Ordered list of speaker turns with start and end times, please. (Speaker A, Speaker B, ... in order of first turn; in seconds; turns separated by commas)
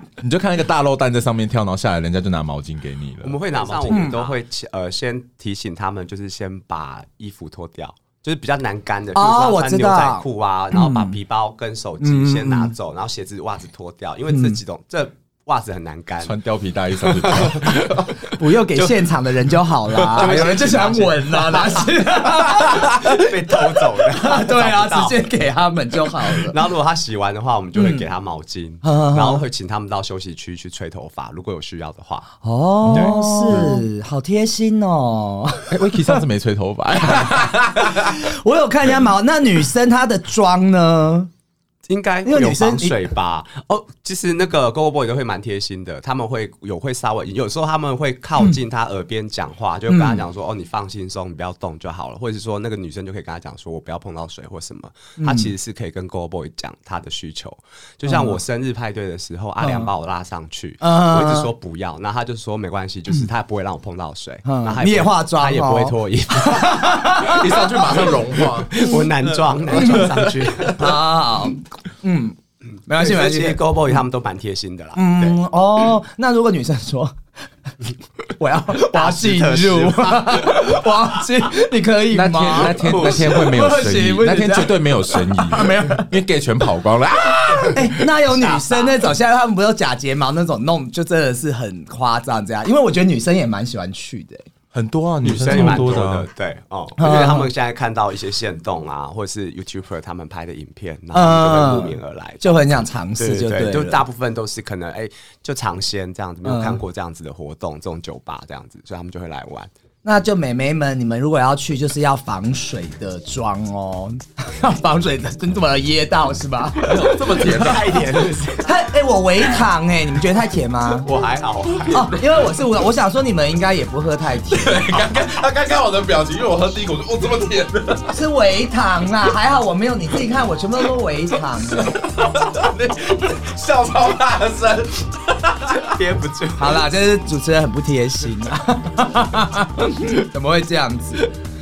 Speaker A: 0.2-4.1, Speaker B: 3.2-16.4, Speaker C: 3.9-4.3, Speaker C: 9.1-11.2, Speaker C: 12.0-12.7, Speaker C: 14.3-14.6, Speaker A: 16.2-18.1, Speaker B: 17.0-18.1, Speaker C: 18.3-26.6, Speaker B: 18.7-19.1, Speaker A: 20.0-20.3, Speaker B: 20.1-22.0, Speaker B: 22.7-25.2, Speaker B: 26.3-32.3, Speaker C: 27.8-28.1, Speaker C: 28.8-29.4, Speaker C: 32.4-36.2, Speaker A: 32.9-33.7, Speaker B: 32.9-33.6, Speaker A: 35.7-38.2, Speaker C: 37.1-41.3, Speaker B: 41.9-71.0, Speaker C: 42.2-43.0, Speaker C: 49.9-50.2, Speaker C: 55.2-55.5, Speaker C: 58.0-58.4, Speaker C: 59.6-59.9, Speaker C: 60.8-61.5, Speaker C: 64.4-67.7, Speaker A: 67.3-70.7, Speaker C: 68.8-69.0, Speaker C: 69.7-72.4, Speaker C: 72.9-73.6, Speaker B: 72.9-75.4, Speaker C: 75.0-77.2, Speaker C: 78.4-86.1, Speaker B: 78.8-80.8, Speaker A: 82.1-88.1, Speaker B: 82.7-83.4, Speaker C: 87.7-94.5, Speaker B: 88.3-89.1, Speaker A: 94.7-96.3, Speaker B: 95.2-109.7, Speaker C: 95.5-95.9, Speaker C: 97.0-97.5, Speaker C: 101.1-104.0, Speaker C: 106.4-106.8, Speaker C: 110.0-117.5, Speaker A: 116.8-118.2, Speaker B: 117.4-118.7, Speaker C: 118.6-121.1, Speaker B: 121.0-122.1, Speaker C: 121.9-125.0, Speaker A: 124.5-128.2, Speaker C: 128.1-132.0, Speaker A: 131.9-135.9, Speaker B: 135.8-136.8, Speaker C: 136.6-141.3